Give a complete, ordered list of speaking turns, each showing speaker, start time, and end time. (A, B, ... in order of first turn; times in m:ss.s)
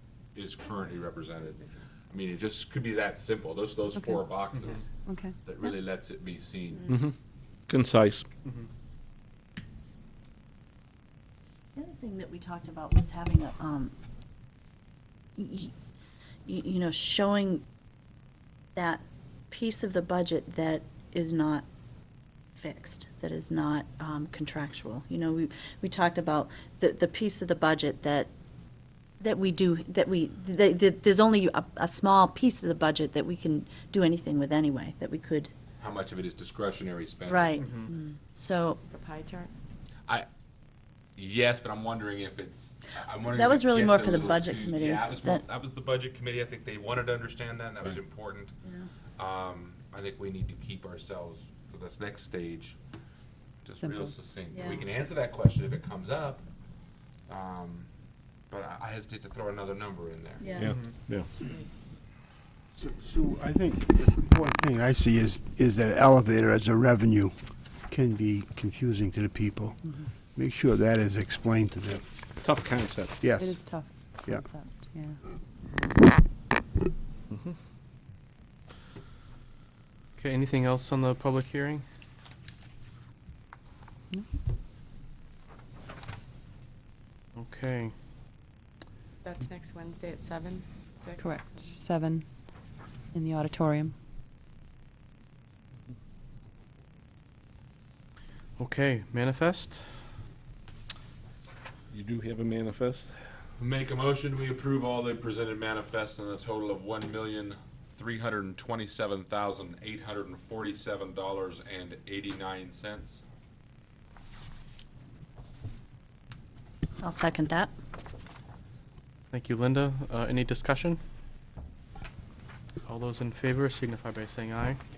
0:00.3-0:04.9 A
0:03.9-0:04.3 B
0:04.9-0:05.3 B
0:05.4-0:06.9 A
0:06.9-0:07.1 C
0:07.7-0:08.3 C
0:11.7-0:13.9 D
0:15.4-0:15.7 D
0:16.4-0:17.6 D
0:18.7-0:21.6 D
0:22.5-0:28.3 D
0:29.2-0:35.5 D
0:35.8-0:37.6 A
0:37.2-0:38.8 D
0:37.6-0:37.9 E
0:38.9-0:39.5 F
0:41.2-0:48.5 A
0:43.3-0:45.4 D
0:49.2-0:52.8 A
0:53.6-0:56.4 A
0:53.8-0:54.1 B
0:54.5-0:54.8 D
0:57.3-0:57.9 A
0:58.5-1:00.5 A
1:00.4-1:00.7 D
1:00.6-1:01.3 C
1:00.6-1:01.0 E
1:01.4-1:01.7 F
1:02.7-1:12.2 G
1:12.4-1:13.3 C
1:13.2-1:14.5 G
1:13.3-1:15.2 B
1:20.2-1:21.8 E
1:27.3-1:27.9 E
1:29.2-1:31.6 F
1:31.2-1:32.6 B
1:33.1-1:33.9 B
1:38.6-1:40.0 E
1:41.9-1:43.2 C
1:43.6-1:53.2 A
1:57.0-1:57.7 D
1:59.3-2:01.0 E
2:02.8-2:04.8 E